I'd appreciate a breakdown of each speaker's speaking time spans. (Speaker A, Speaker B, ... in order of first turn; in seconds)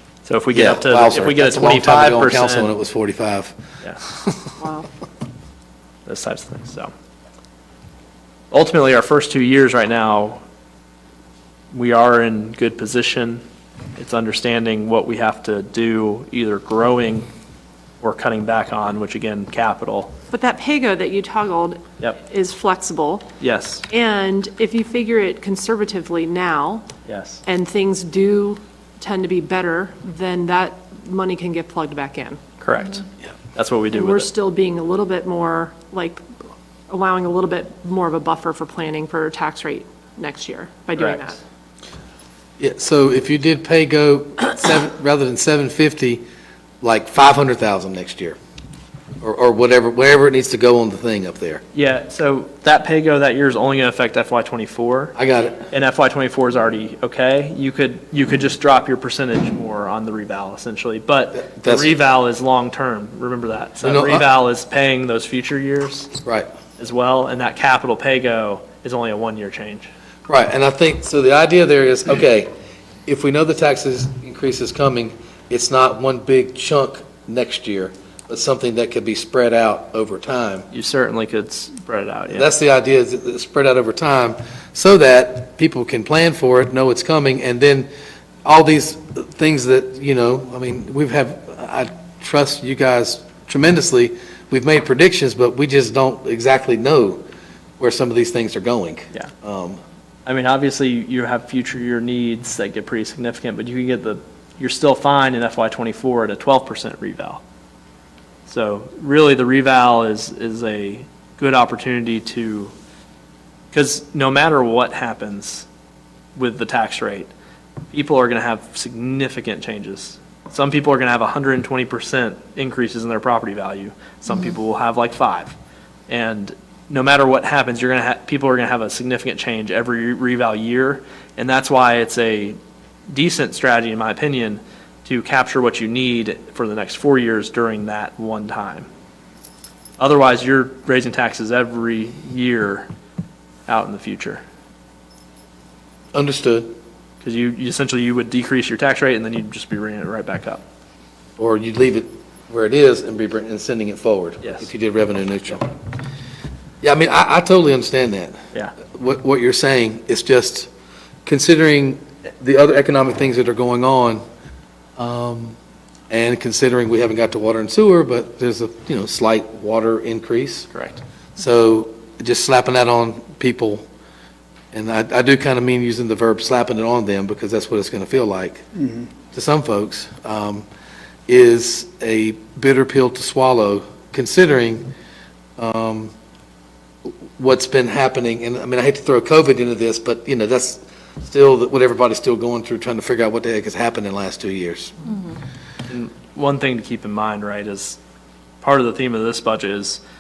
Speaker A: 0.3-2.7, 6.1-6.9, 8.5-10.4, 11.7-13.4, 14.0-17.3, 18.0-20.1, 23.4-23.9, 27.1-27.4, 32.6-34.3, 41.0-41.4, 51.7-55.1, 55.7-66.1, 66.8-69.9, 80.7-82.5, 100.3-107.4, 108.5-112.7, 113.7-115.7, 116.4-117.3, 117.9-125.5, 126.1-132.6, 133.1-138.9, 140.0-142.9, 143.7-144.4, 147.2-150.6, 170.7-171.0, 195.9-198.0, 198.6-200.0
Speaker B: 0.5-3.5, 4.1-4.5, 42.6-46.2, 46.8-48.4, 49.2-51.6, 55.2-55.7, 61.4-61.9, 63.8-64.2, 66.2-66.5, 70.3-72.5, 73.1-80.7, 82.3-87.9, 88.4-97.2, 97.8-99.8, 146.1-146.7, 151.4-155.7, 156.8-160.7, 161.3-164.2, 165.0-165.6, 166.1-170.7, 171.4-173.8, 174.7-178.6, 179.3-180.7, 181.3-184.9, 185.6-186.1, 187.1-195.2
Speaker C: 4.6-4.9, 20.3-23.3, 23.9-26.9, 27.5-32.5, 33.9-36.2, 36.9-41.4